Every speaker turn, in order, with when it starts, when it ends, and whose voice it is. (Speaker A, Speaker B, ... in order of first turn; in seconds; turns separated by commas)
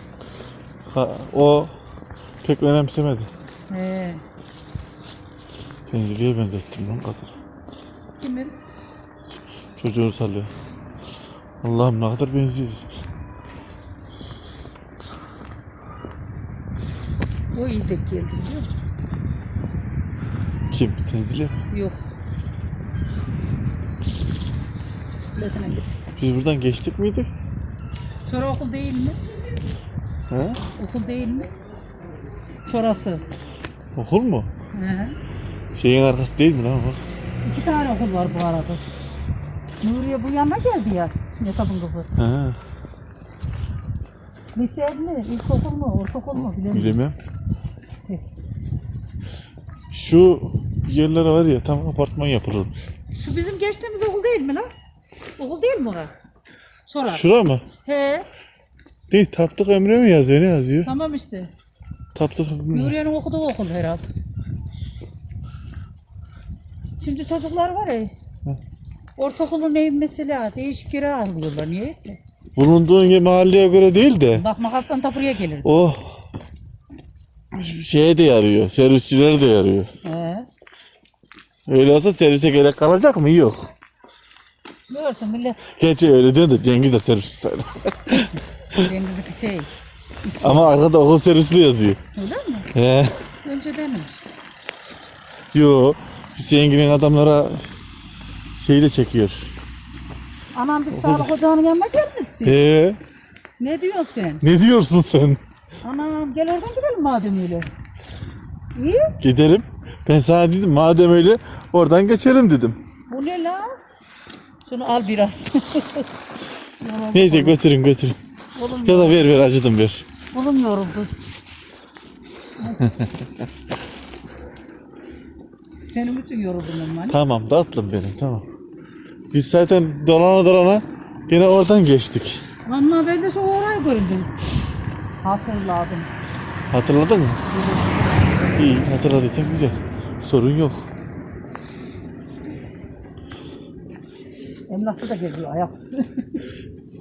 Speaker A: 0.9-1.7, Speaker A: 2.4-3.3, Speaker B: 3.7-4.2, Speaker A: 5.9-7.3, Speaker B: 8.2-8.6, Speaker A: 9.8-10.5, Speaker A: 11.6-12.9, Speaker B: 17.5-18.7, Speaker A: 20.7-21.6, Speaker B: 21.7-22.0, Speaker B: 25.4-25.9, Speaker A: 26.2-27.3, Speaker B: 28.3-29.2, Speaker A: 30.3-30.6, Speaker B: 30.8-31.5, Speaker B: 32.7-33.2, Speaker A: 34.0-34.5, Speaker B: 34.7-35.2, Speaker A: 35.7-37.0, Speaker B: 37.4-38.8, Speaker B: 39.8-42.1, Speaker A: 42.2-42.6, Speaker B: 44.5-47.0, Speaker A: 46.7-47.2, Speaker A: 49.9-52.7, Speaker B: 53.1-54.7, Speaker B: 55.4-56.1, Speaker B: 56.9-57.2, Speaker A: 57.1-57.6, Speaker B: 57.8-58.3, Speaker A: 59.1-60.9, Speaker B: 60.8-61.5, Speaker A: 62.1-63.0, Speaker B: 62.7-64.0, Speaker B: 67.0-68.1, Speaker B: 69.2-72.2, Speaker A: 72.6-74.4, Speaker B: 74.3-75.8, Speaker A: 75.6-76.2, Speaker A: 77.5-79.9, Speaker B: 80.0-80.5, Speaker A: 81.7-83.7, Speaker B: 84.9-85.6, Speaker A: 85.7-88.9, Speaker B: 88.7-89.7, Speaker B: 90.2-90.7, Speaker A: 90.4-92.0, Speaker B: 92.2-92.7, Speaker A: 92.7-93.2, Speaker B: 93.4-94.2, Speaker A: 95.5-97.7, Speaker A: 98.6-99.5, Speaker B: 100.5-102.6, Speaker A: 100.9-101.4, Speaker A: 102.4-103.0, Speaker B: 103.6-104.4, Speaker A: 104.4-105.4, Speaker B: 105.8-107.7, Speaker B: 108.8-109.1, Speaker A: 109.2-112.8, Speaker B: 113.1-113.8, Speaker B: 114.7-116.1, Speaker B: 116.8-117.6, Speaker A: 117.1-118.2, Speaker B: 118.5-119.3, Speaker A: 118.8-120.0, Speaker B: 120.3-121.1, Speaker B: 122.6-123.0, Speaker B: 125.9-127.2, Speaker A: 127.1-128.5, Speaker A: 129.3-132.4, Speaker B: 132.7-134.3, Speaker B: 135.2-136.1, Speaker A: 136.7-137.4, Speaker B: 137.5-137.9, Speaker A: 138.6-140.9, Speaker B: 144.7-146.5